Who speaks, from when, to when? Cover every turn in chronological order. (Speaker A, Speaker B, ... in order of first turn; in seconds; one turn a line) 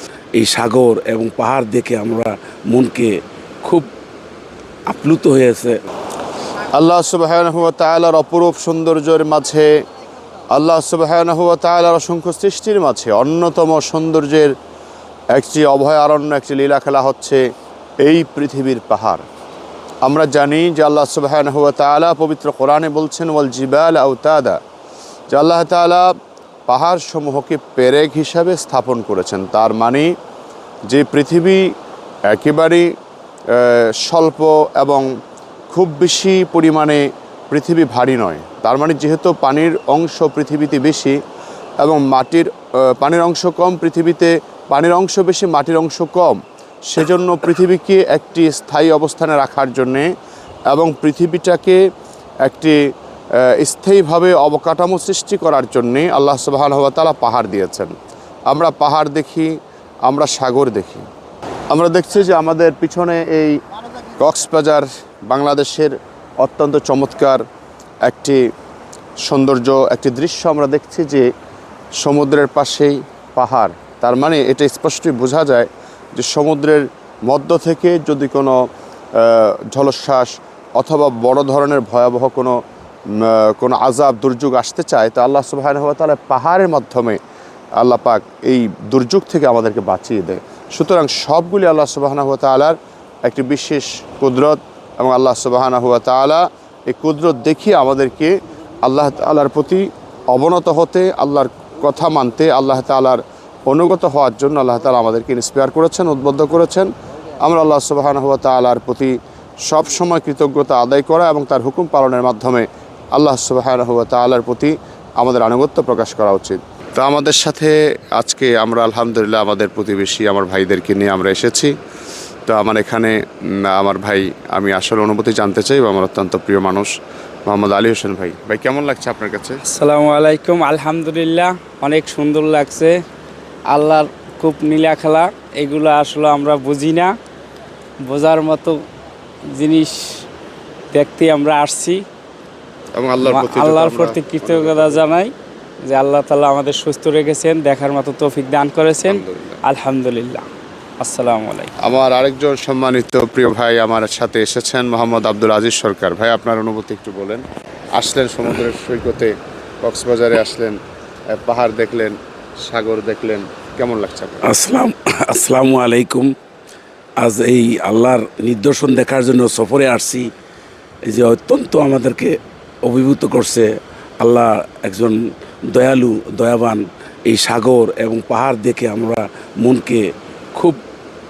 Speaker A: 0.4-3.1
Speaker A: 4.9-5.8
Speaker B: 6.7-9.7
Speaker B: 10.5-14.5
Speaker B: 15.3-17.4
Speaker B: 18.0-19.2
Speaker B: 20.0-24.6
Speaker B: 25.3-26.1
Speaker B: 26.7-30.1
Speaker B: 30.9-31.6
Speaker B: 32.3-32.9
Speaker B: 33.5-35.1
Speaker B: 35.7-41.2
Speaker B: 41.8-50.1
Speaker B: 50.7-51.8
Speaker B: 52.4-52.8
Speaker B: 53.4-57.9
Speaker B: 58.5-59.5
Speaker B: 60.1-61.1
Speaker B: 61.7-63.6
Speaker B: 64.2-67.4
Speaker B: 68.0-68.4
Speaker B: 69.2-71.3
Speaker B: 72.0-78.6
Speaker B: 79.2-82.6
Speaker B: 83.2-87.2
Speaker B: 87.8-106.9
Speaker B: 107.4-109.2
Speaker B: 109.7-121.7
Speaker B: 122.5-126.9
Speaker B: 127.5-129.6
Speaker C: 129.7-133.0
Speaker C: 133.7-137.1
Speaker C: 138.1-138.8
Speaker C: 139.5-140.2
Speaker C: 140.9-142.0
Speaker B: 143.0-145.0
Speaker C: 143.2-145.3
Speaker C: 145.8-150.5
Speaker B: 149.1-149.6
Speaker C: 151.0-151.7
Speaker B: 151.8-159.3
Speaker B: 159.8-160.8
Speaker B: 161.3-164.4
Speaker A: 164.4-166.3
Speaker A: 167.2-170.3
Speaker A: 171.1-180.8